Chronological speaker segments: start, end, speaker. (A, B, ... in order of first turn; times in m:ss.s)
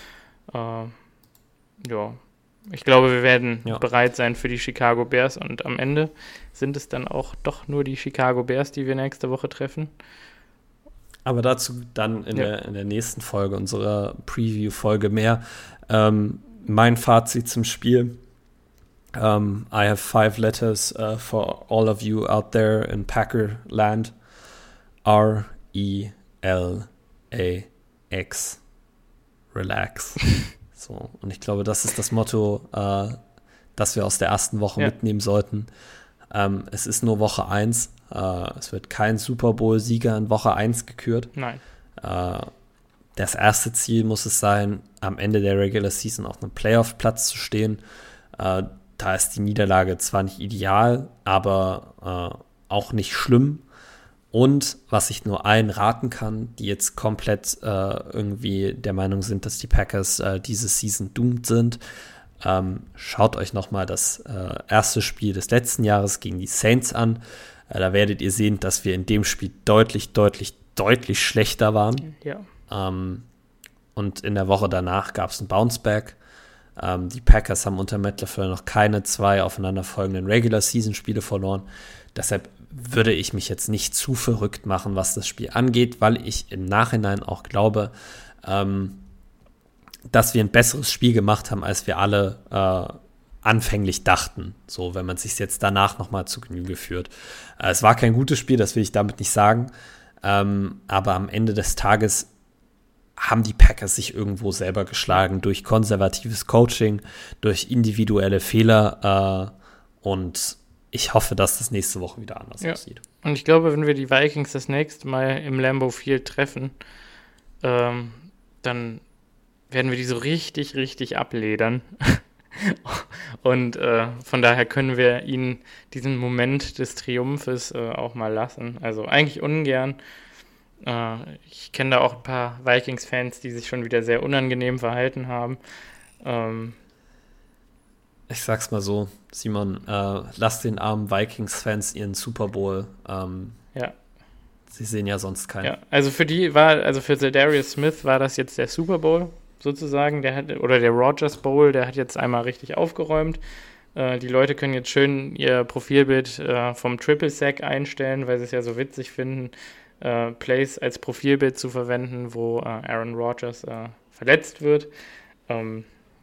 0:00.5-0:01.0 A
0:01.8-0:09.9 A
0:11.2-0:18.2 B
0:19.2-0:24.2 B
0:25.0-0:28.6 B
0:29.5-0:33.2 B
0:33.8-0:35.7 B
0:36.3-0:41.3 B
0:41.4-0:41.6 A
0:42.0-0:42.5 B
0:43.2-0:47.8 B
0:48.4-0:53.6 B
0:54.3-1:01.8 B
1:02.4-1:12.1 B
1:12.0-1:12.5 A
1:12.7-1:13.3 B
1:14.0-1:16.2 B
1:16.8-1:29.0 B
1:30.1-1:39.7 B
1:40.2-1:42.3 B
1:43.2-1:53.0 B
1:52.6-1:56.7 A
1:57.6-1:59.0 A
1:59.7-2:10.0 A
2:10.8-2:15.6 A
2:16.2-2:16.8 A
2:18.3-2:23.6 B
2:24.7-2:25.7 B
2:25.6-2:33.4 A
2:34.0-2:44.9 A
2:45.5-2:45.9 A